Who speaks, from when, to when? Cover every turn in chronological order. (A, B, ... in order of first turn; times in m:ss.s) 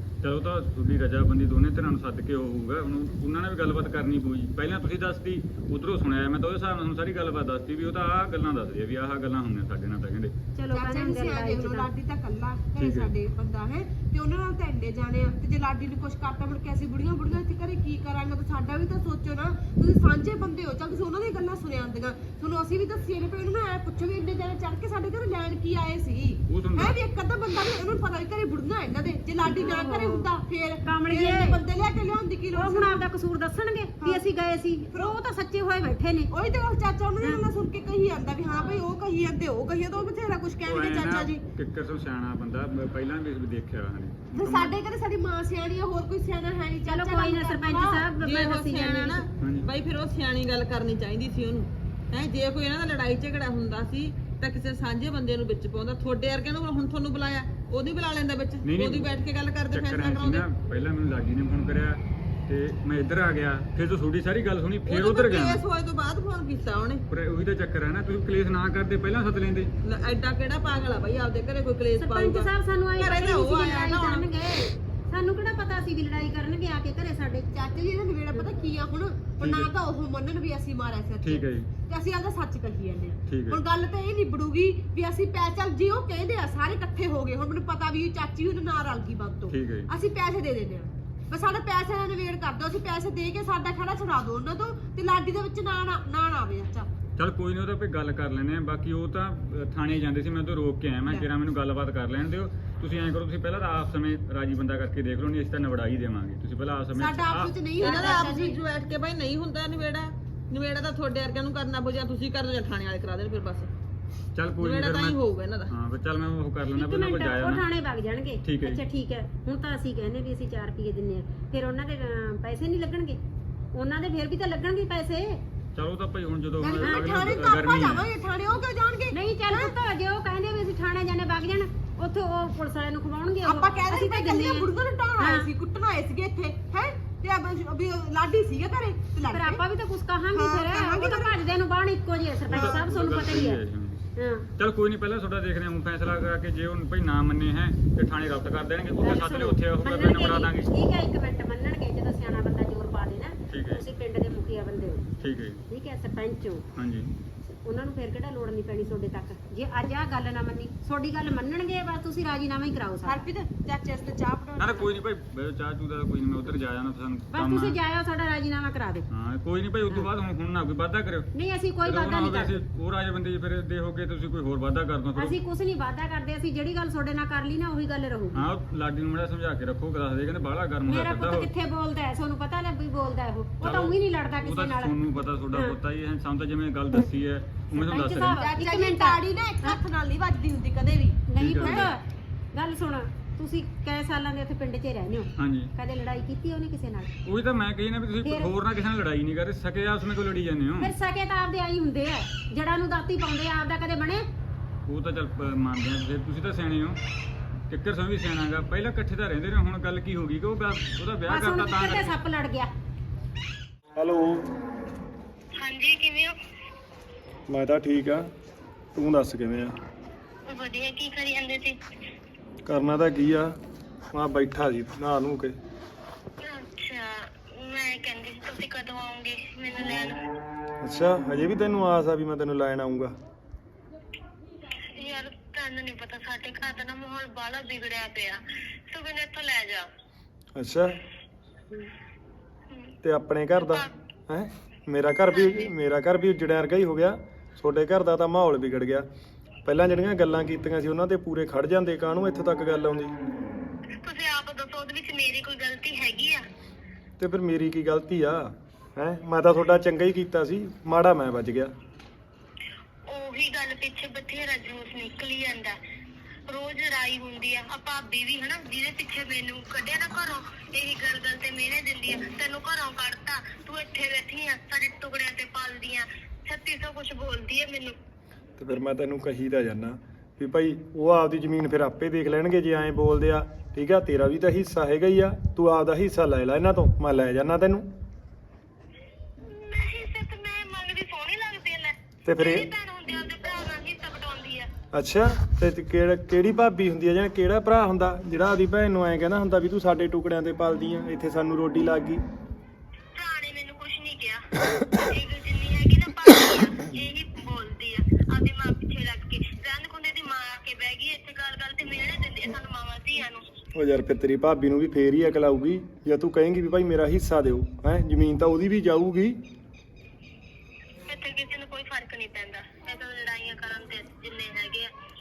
0:00.2-0:10.3 A
0:10.6-0:11.9 B
0:10.7-0:33.1 C
0:12.8-0:13.1 A
0:26.5-0:27.0 A
0:29.4-0:30.3 B
0:30.8-0:31.6 B
0:32.5-0:36.3 B
0:34.9-0:35.2 C
0:36.3-0:41.4 C
0:38.5-0:38.8 B
0:40.6-0:44.8 A
0:44.3-0:48.0 C
0:46.9-0:49.2 B
0:48.2-1:00.5 D
0:49.4-0:49.7 A
0:58.6-0:59.1 A
0:59.7-1:05.6 A
1:04.9-1:07.0 D
1:07.1-1:09.7 A
1:09.8-1:14.3 D
1:12.0-1:17.5 B
1:17.5-1:36.9 C
1:19.4-1:19.7 A
1:21.2-1:21.7 A
1:23.3-1:23.6 A
1:29.5-1:29.9 A
1:37.2-1:47.6 A
1:46.9-1:48.6 C
1:47.8-1:53.7 D
1:47.8-1:48.5 B
1:54.3-1:57.6 A
1:54.6-1:55.7 D
1:56.8-2:03.2 B
1:58.4-1:58.8 A
2:03.7-2:05.4 B
2:05.8-2:08.1 A
2:06.6-2:09.8 C
2:06.6-2:07.3 B
2:09.1-2:15.5 B
2:13.4-2:19.6 C
2:19.3-2:23.6 B
2:20.3-2:21.4 C
2:22.5-2:24.0 A
2:22.5-2:23.0 C
2:24.2-2:24.4 B
2:24.6-2:30.7 A
2:29.0-2:35.1 B
2:33.5-2:33.8 A
2:35.2-2:35.6 A
2:35.7-2:36.6 B
2:36.8-2:37.1 A
2:37.6-2:43.2 B
2:43.0-2:44.9 C
2:44.6-2:47.8 A
2:47.3-2:49.0 B
2:49.1-2:51.3 A
2:51.3-2:52.6 B
2:51.8-2:55.4 A
2:55.2-2:58.5 B
2:58.3-3:01.5 A
3:00.9-3:05.0 B
3:03.6-3:08.4 A
3:07.7-3:09.8 B
3:08.3-3:11.9 C
3:11.3-3:12.0 B
3:11.4-3:11.9 A
3:12.5-3:17.1 B
3:15.4-3:15.7 A
3:17.2-3:20.9 A
3:20.8-3:24.2 B
3:24.9-3:27.0 A
3:27.7-3:32.2 A
3:31.3-3:32.7 B
3:33.9-3:34.5 E
3:35.6-3:36.3 F
3:37.5-3:38.3 E
3:38.9-3:39.7 E
3:40.5-3:41.8 F
3:42.6-3:43.5 E
3:44.1-3:45.6 E
3:46.4-3:50.2 F
3:50.8-3:53.1 E
3:55.0-3:59.9 F
4:00.6-4:01.0 E
4:02.7-4:02.9 F
4:03.0-4:09.1 E
4:03.6-4:03.9 F
4:05.3-4:05.7 F
4:09.6-4:13.1 E
4:14.0-4:16.4 F
4:17.2-4:21.7 E
4:23.1-4:25.8 F
4:26.5-4:38.0 F
4:38.6-4:47.9 E
4:49.4-4:54.7 F
4:52.2-4:52.7 E
4:54.9-5:02.2 E
5:03.1-5:13.4 F
5:13.7-5:19.4 E
5:21.1-5:24.9 F